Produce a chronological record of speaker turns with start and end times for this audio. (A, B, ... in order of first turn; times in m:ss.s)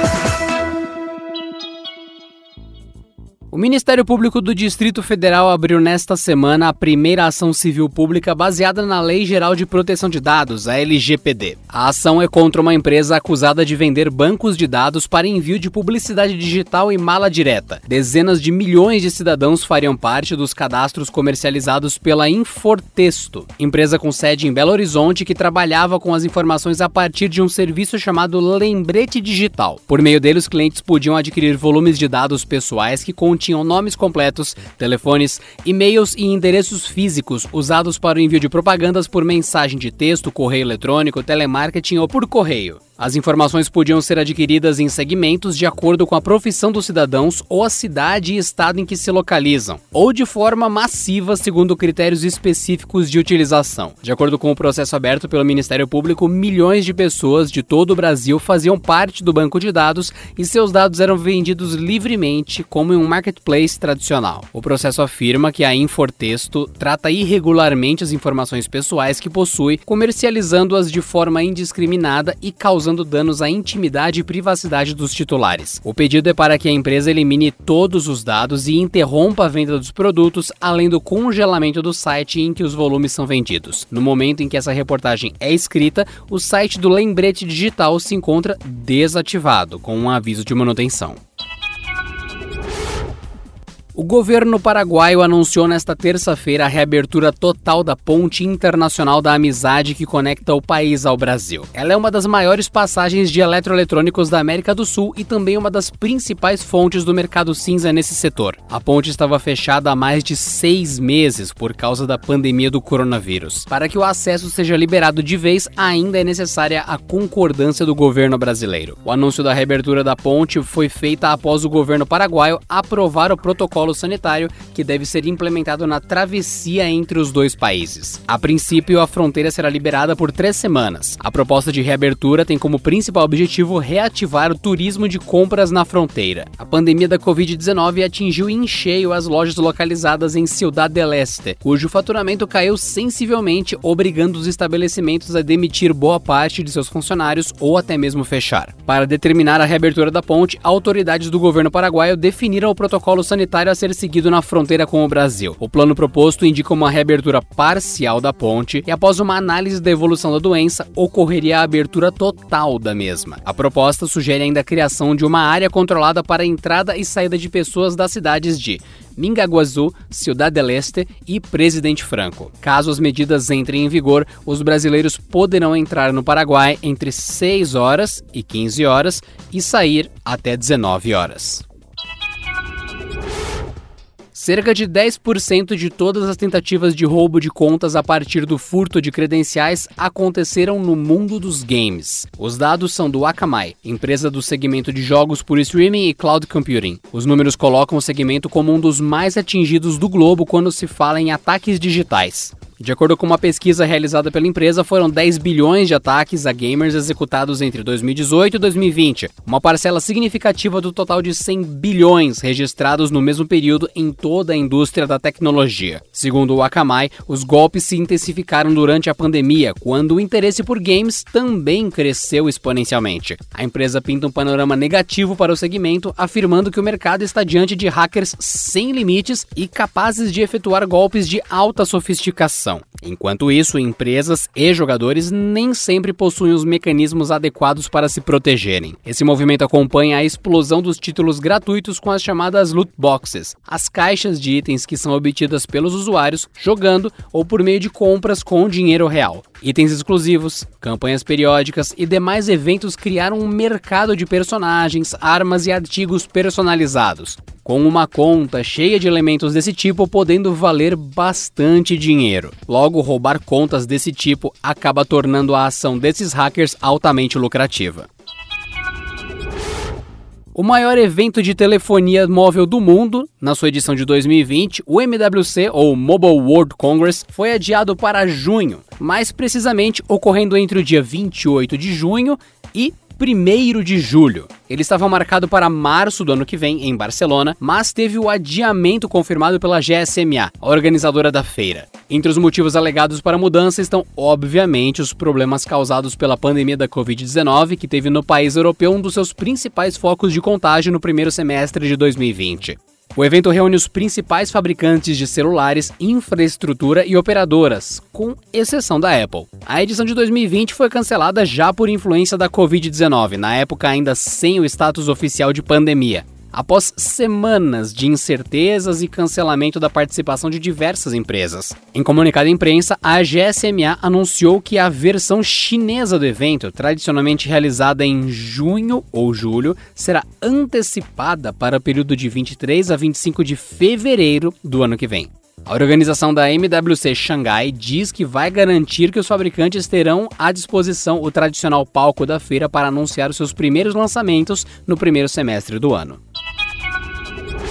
0:03.5-1:31.2 A
1:33.9-3:01.6 A
3:04.3-4:28.1 A
4:30.5-5:46.2 A